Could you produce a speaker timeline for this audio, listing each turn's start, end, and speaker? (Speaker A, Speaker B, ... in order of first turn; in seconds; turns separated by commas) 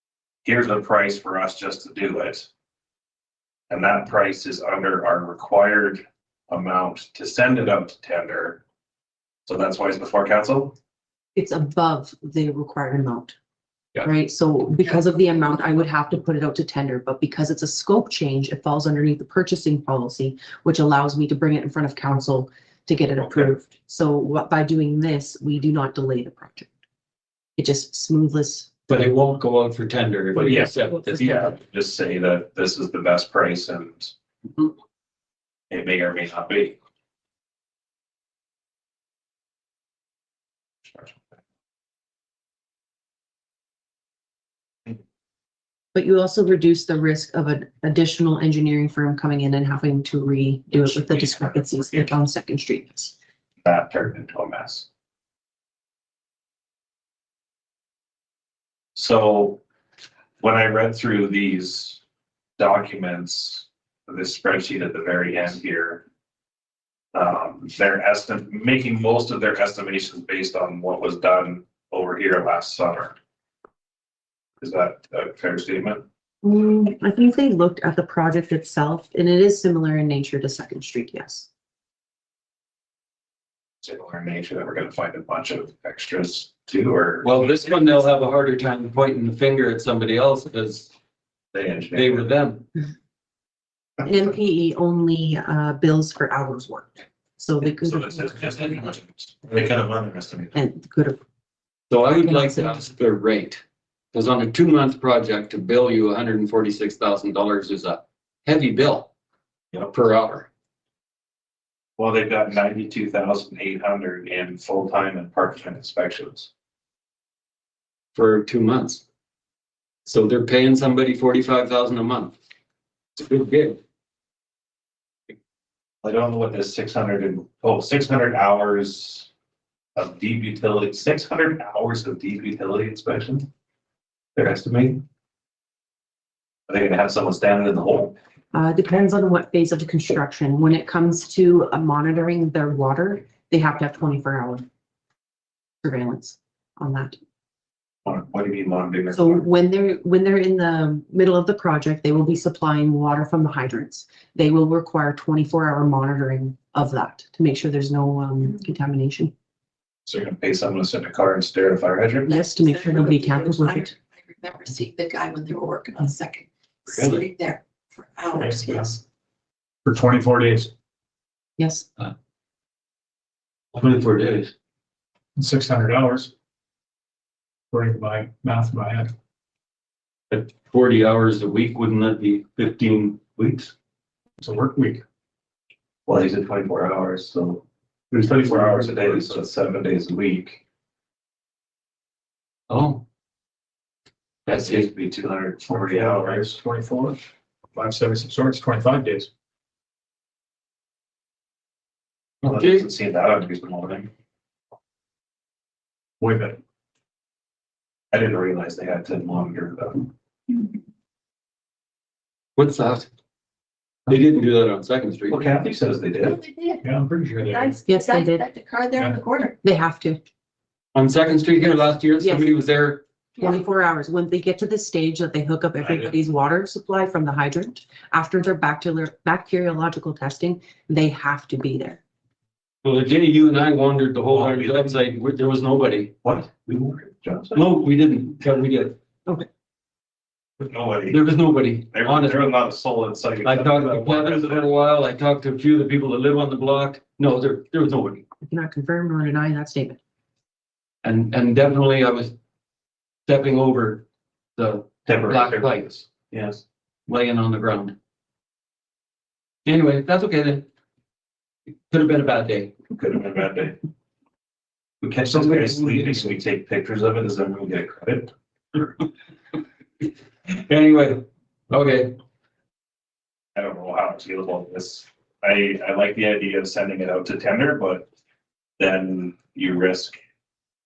Speaker A: 0.4-2.5, Speaker A: 3.7-8.6, Speaker A: 9.4-10.7, Speaker B: 11.3-13.3, Speaker B: 14.0-26.7, Speaker A: 23.2-23.6, Speaker B: 27.6-28.7, Speaker C: 28.9-31.6, Speaker A: 30.3-34.1, Speaker A: 35.7-36.8, Speaker B: 45.9-53.1, Speaker A: 50.7-52.1, Speaker A: 53.6-54.9, Speaker A: 58.9-59.6, Speaker A: 60.4-62.0, Speaker A: 62.6-66.0, Speaker A: 67.1-73.2, Speaker A: 74.6-76.0, Speaker B: 76.4-81.5, Speaker A: 83.8-87.7, Speaker C: 87.2-90.9, Speaker A: 91.5-92.3, Speaker C: 91.9-92.7, Speaker B: 94.0-98.7, Speaker A: 97.7-100.5, Speaker B: 100.5-101.2, Speaker C: 101.9-103.6, Speaker B: 102.2-102.7, Speaker C: 104.1-109.1, Speaker C: 109.8-110.5, Speaker A: 112.0-116.5, Speaker C: 118.1-119.0, Speaker C: 120.0-122.4, Speaker C: 123.2-123.8, Speaker A: 126.0-129.3, Speaker A: 129.9-133.5, Speaker A: 134.3-135.0, Speaker A: 136.7-138.2, Speaker B: 138.5-144.7, Speaker B: 145.8-147.2, Speaker A: 148.0-149.5, Speaker B: 149.1-159.3, Speaker A: 160.1-162.3, Speaker D: 162.3-169.0, Speaker B: 162.3-163.9, Speaker C: 166.9-167.2, Speaker E: 169.9-170.7, Speaker B: 171.6-171.9, Speaker C: 173.7-174.5, Speaker E: 175.4-176.3, Speaker E: 177.7-179.1, Speaker C: 180.3-183.7, Speaker E: 184.4-185.0, Speaker A: 186.1-187.6, Speaker A: 188.2-190.6, Speaker C: 192.7-193.0, Speaker C: 194.5-194.9, Speaker A: 194.5-196.5, Speaker E: 195.7-197.2, Speaker E: 197.8-199.3, Speaker A: 202.4-204.1, Speaker C: 202.4-202.8, Speaker E: 206.2-206.6, Speaker A: 208.1-210.1, Speaker C: 212.6-213.1, Speaker C: 214.1-215.4, Speaker A: 215.3-216.4, Speaker D: 216.2-216.8, Speaker E: 216.8-217.7, Speaker D: 217.5-219.6, Speaker B: 217.8-218.4, Speaker B: 219.6-220.2, Speaker C: 220.9-223.0, Speaker B: 222.2-222.5, Speaker B: 223.4-232.0, Speaker A: 225.8-226.1, Speaker C: 232.8-236.1, Speaker A: 234.3-235.0, Speaker A: 236.2-237.7, Speaker C: 237.5-238.9, Speaker A: 240.6-241.2, Speaker C: 241.1-242.4, Speaker A: 241.9-244.7, Speaker C: 243.4-248.2, Speaker B: 248.4-250.0, Speaker C: 251.0-252.3, Speaker C: 253.3-254.0, Speaker C: 254.6-256.0, Speaker A: 255.1-256.6, Speaker C: 257.1-257.9, Speaker C: 259.6-260.7, Speaker C: 261.9-262.7, Speaker A: 262.9-263.8, Speaker A: 265.0-268.9, Speaker C: 265.3-266.2, Speaker C: 270.5-272.1, Speaker A: 273.5-278.1, Speaker A: 278.8-280.2